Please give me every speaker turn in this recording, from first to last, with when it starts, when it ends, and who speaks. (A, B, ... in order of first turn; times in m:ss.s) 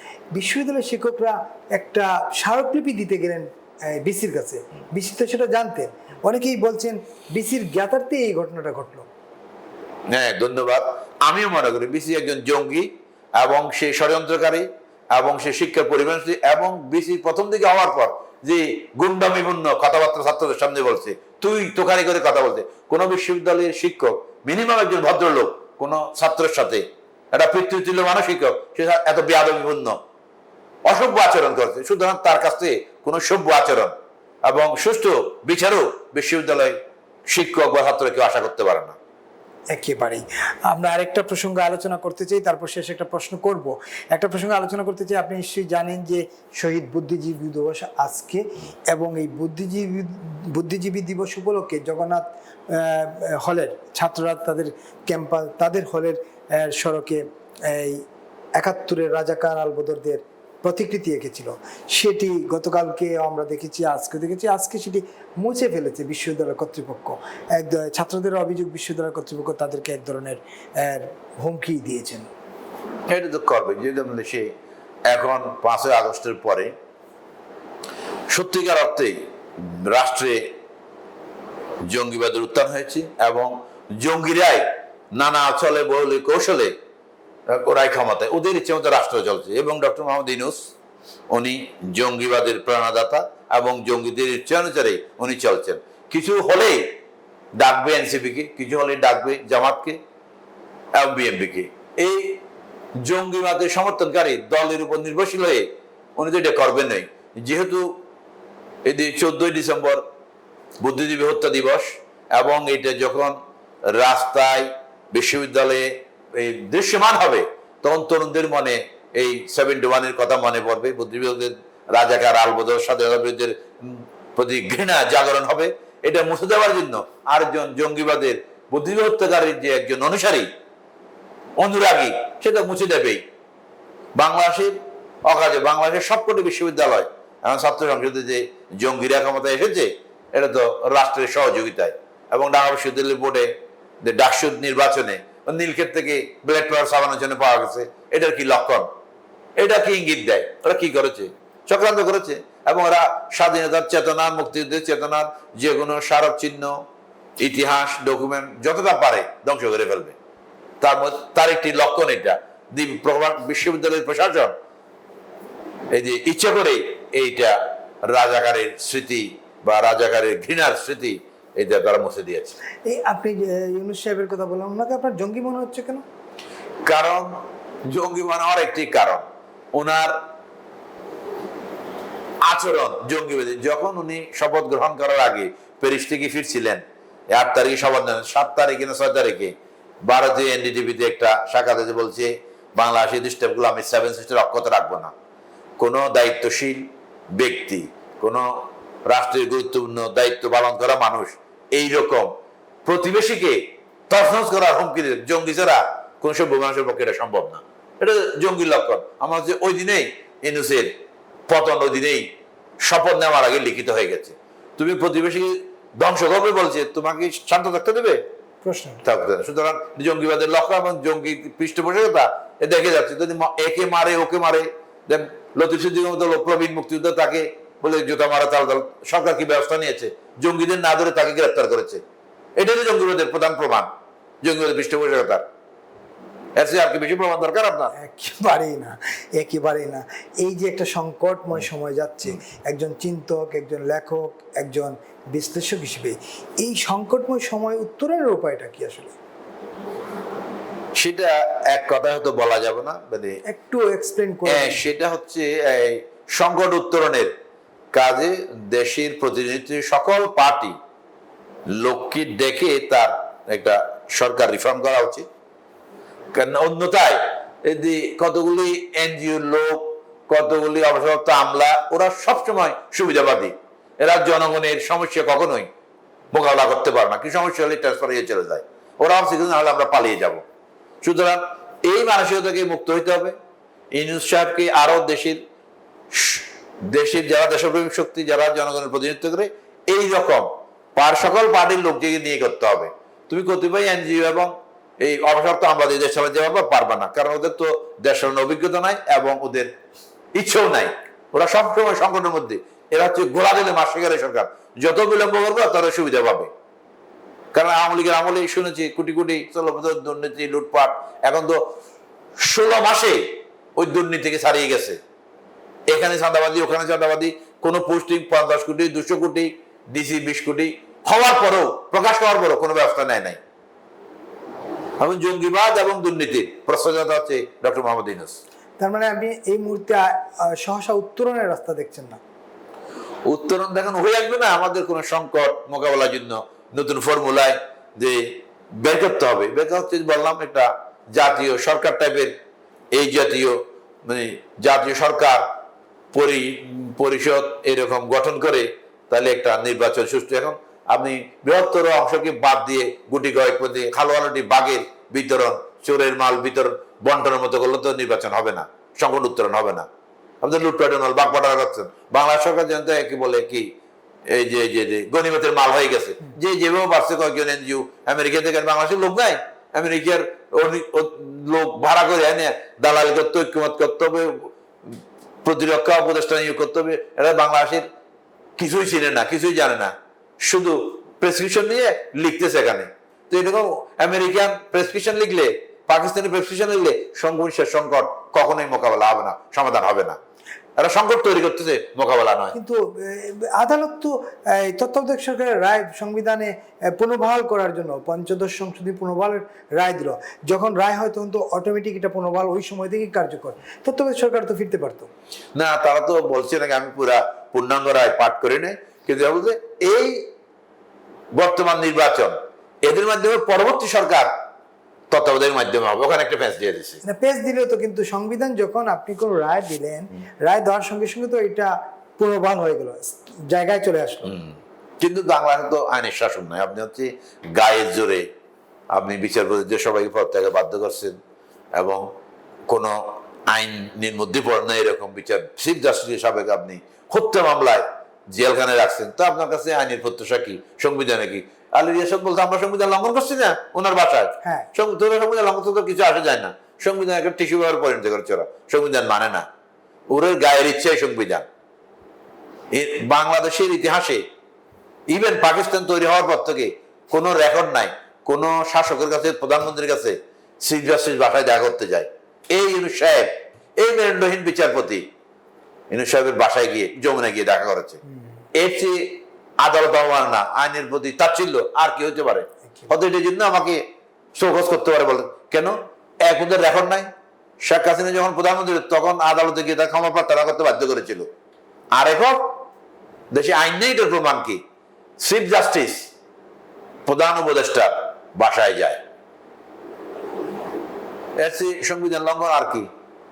0:00.3-0:09.1 A
0:10.1-0:30.0 B
0:30.9-0:33.9 B
0:34.4-0:36.8 B
0:37.3-0:39.0 B
0:39.7-0:58.0 A
0:58.6-1:12.3 A
1:13.1-1:14.5 B
1:15.1-1:16.7 B
1:18.3-1:20.5 B
1:21.9-1:26.7 B
1:27.5-1:30.7 B
1:31.3-1:37.0 B
1:37.6-1:40.0 B
1:41.0-1:42.4 B
1:43.0-1:47.9 B
1:48.8-1:50.0 B
1:50.8-2:10.5 B
2:11.6-2:13.2 B
2:14.2-2:28.9 B
2:29.6-2:36.8 B
2:37.4-2:40.2 B
2:40.8-2:44.5 B
2:45.9-2:52.6 B
2:52.9-2:56.0 A
2:56.9-2:57.3 B
2:57.9-3:00.2 B
3:02.4-3:09.5 B
3:10.1-3:15.1 B
3:15.8-3:22.3 B
3:22.9-3:30.9 B
3:31.5-3:32.3 B
3:32.8-3:38.2 B
3:38.6-3:39.0 A
3:39.0-3:52.0 B
3:52.6-3:53.9 B
3:54.4-3:55.4 B
3:56.6-3:57.9 B
3:58.0-4:09.2 A
4:11.0-4:13.4 B
4:13.5-4:14.8 A
4:14.5-4:17.3 B
4:17.9-4:20.8 B
4:21.7-4:25.2 B
4:26.3-4:35.7 B
4:36.3-4:40.4 B
4:41.0-4:43.4 B
4:43.9-4:45.4 B
4:46.1-4:59.7 B
5:00.4-5:06.5 B
5:07.5-5:11.6 B
5:12.4-5:15.0 B
5:15.9-5:23.4 B
5:25.0-5:28.4 B
5:28.8-5:32.2 A
5:33.3-5:42.3 B
5:42.9-5:45.4 B
5:46.1-5:59.9 B
6:00.4-6:03.7 B
6:04.3-6:17.8 B
6:18.6-6:30.2 B
6:30.8-6:32.5 B
6:32.5-6:45.1 A
6:45.6-6:50.3 B
6:51.3-6:54.3 B
6:55.1-6:57.0 B
6:57.0-7:04.4 A
7:04.3-7:08.3 B
7:08.9-7:11.2 B
7:11.8-7:12.1 B
7:12.7-7:29.5 B
7:24.4-7:24.7 A
7:30.1-7:31.5 B
7:32.7-7:34.2 B
7:35.1-7:45.0 B
7:45.9-7:48.0 B
7:48.6-7:53.8 B
7:54.4-7:57.1 B
7:57.6-8:01.3 B
8:02.0-8:02.6 B
8:03.3-8:04.6 B
8:05.2-8:06.1 B
8:07.1-8:09.0 B
8:11.4-8:12.9 B